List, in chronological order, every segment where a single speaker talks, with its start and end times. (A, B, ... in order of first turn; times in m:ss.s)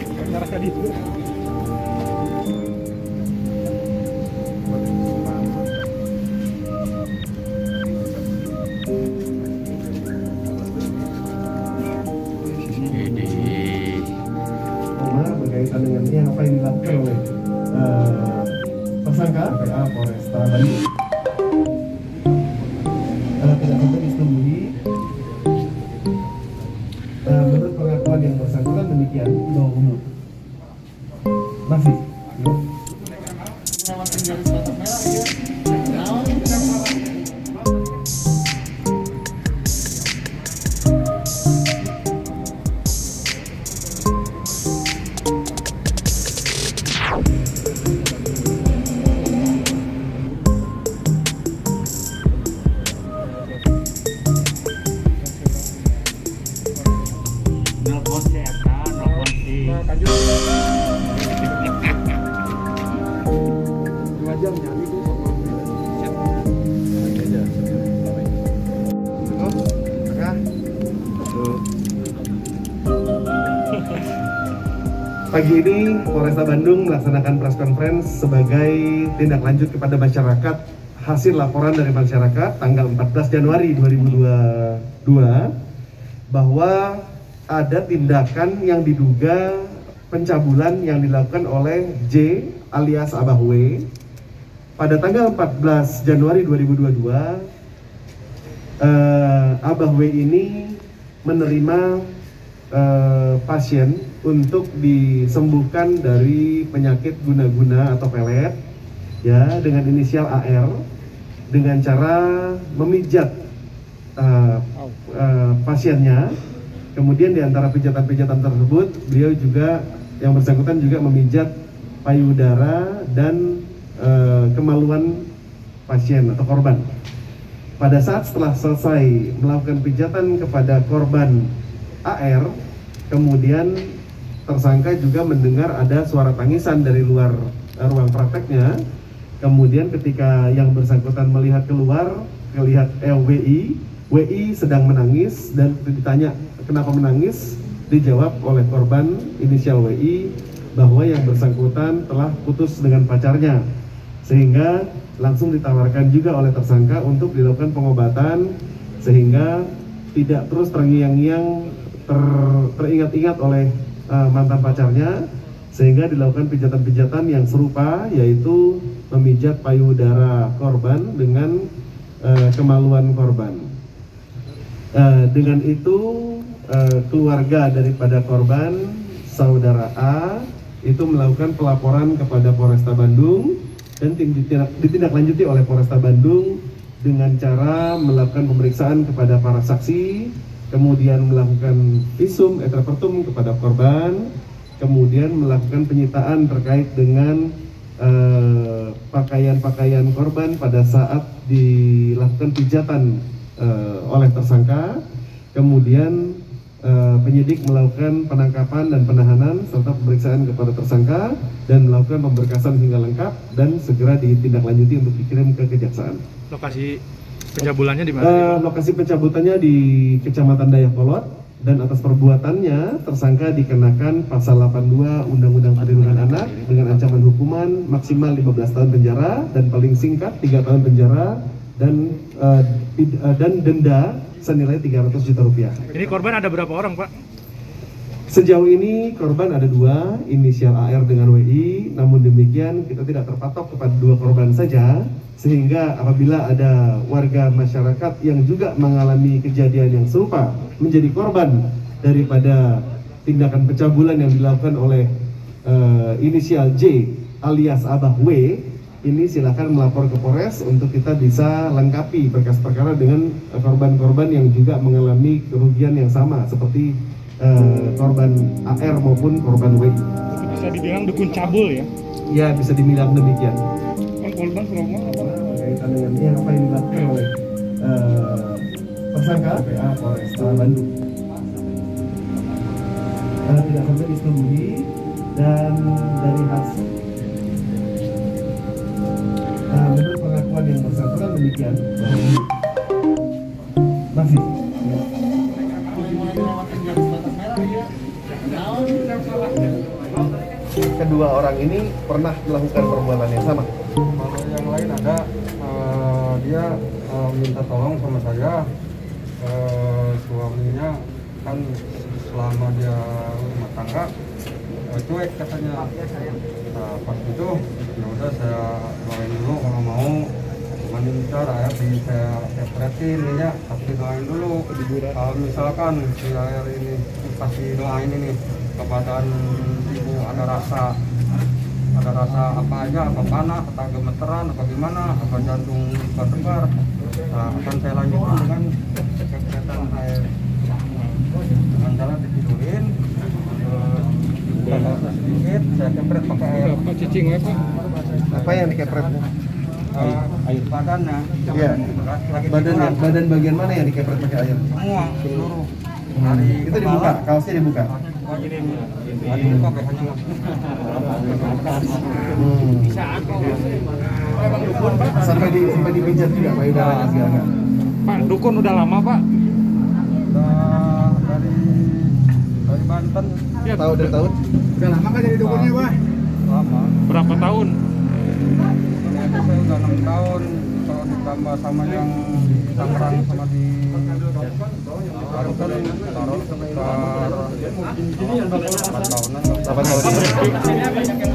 0:00.3-0:00.9 A
0:12.7-0:14.1 B
0:15.0-0:20.8 C
0:23.4-0:24.8 C
0:27.2-0:30.1 C
0:31.6-0:32.6 C
0:33.6-0:35.3 A
0:35.9-0:36.8 A
0:57.8-0:59.8 B
0:59.2-1:00.2 A
1:04.2-1:05.5 A
1:07.1-1:07.8 B
1:09.3-1:10.4 C
1:15.3-1:25.5 C
1:26.3-1:33.9 C
1:34.8-1:37.5 C
1:38.8-1:42.1 C
1:42.7-1:48.6 C
1:49.2-1:50.8 C
1:51.5-1:53.3 C
1:54.2-1:56.4 C
1:57.0-2:01.5 C
2:02.0-2:05.3 C
2:05.9-2:06.9 C
2:07.8-2:11.5 C
2:12.0-2:12.5 C
2:13.1-2:18.8 C
2:19.4-2:33.6 C
2:34.2-2:45.2 C
2:45.7-2:51.7 C
2:52.2-2:53.7 C
2:54.9-3:14.3 C
3:14.8-3:25.0 C
3:25.5-3:36.2 C
3:36.5-3:37.0 A
3:37.5-3:38.6 A
3:38.2-3:56.0 C
3:55.9-3:57.1 A
3:58.3-4:15.1 C
4:15.6-4:30.0 C
4:30.3-4:31.9 A
4:32.3-4:33.6 C
4:34.2-4:35.4 A
4:35.0-4:40.9 C
4:43.4-4:46.9 C
4:49.7-4:52.5 C
4:54.1-4:55.0 C
4:55.7-4:57.9 A
4:58.4-4:59.7 A
5:00.8-5:03.7 C
5:04.1-5:08.6 D
5:09.4-5:14.1 D
5:14.9-5:31.0 D
5:24.7-5:25.2 A
5:31.9-5:40.3 D
5:41.5-5:47.1 D
5:46.8-5:47.6 A
5:48.3-5:49.3 C
5:49.9-5:53.1 D
5:51.5-5:51.8 C
5:52.5-5:54.7 C
5:54.7-5:57.2 D
5:56.1-5:57.9 C
5:57.9-6:02.4 D
5:59.3-5:59.7 C
6:02.3-6:03.3 C
6:04.4-6:05.2 A
6:05.1-6:07.5 C
6:06.7-6:07.5 D
6:08.0-6:09.2 A
6:10.2-6:13.4 D
6:13.6-6:14.0 A
6:13.7-6:14.4 C
6:14.8-6:15.9 A
6:15.2-6:16.9 D
6:17.0-6:17.8 A
6:18.8-6:24.4 D
6:25.2-6:30.8 D
6:29.6-6:30.8 C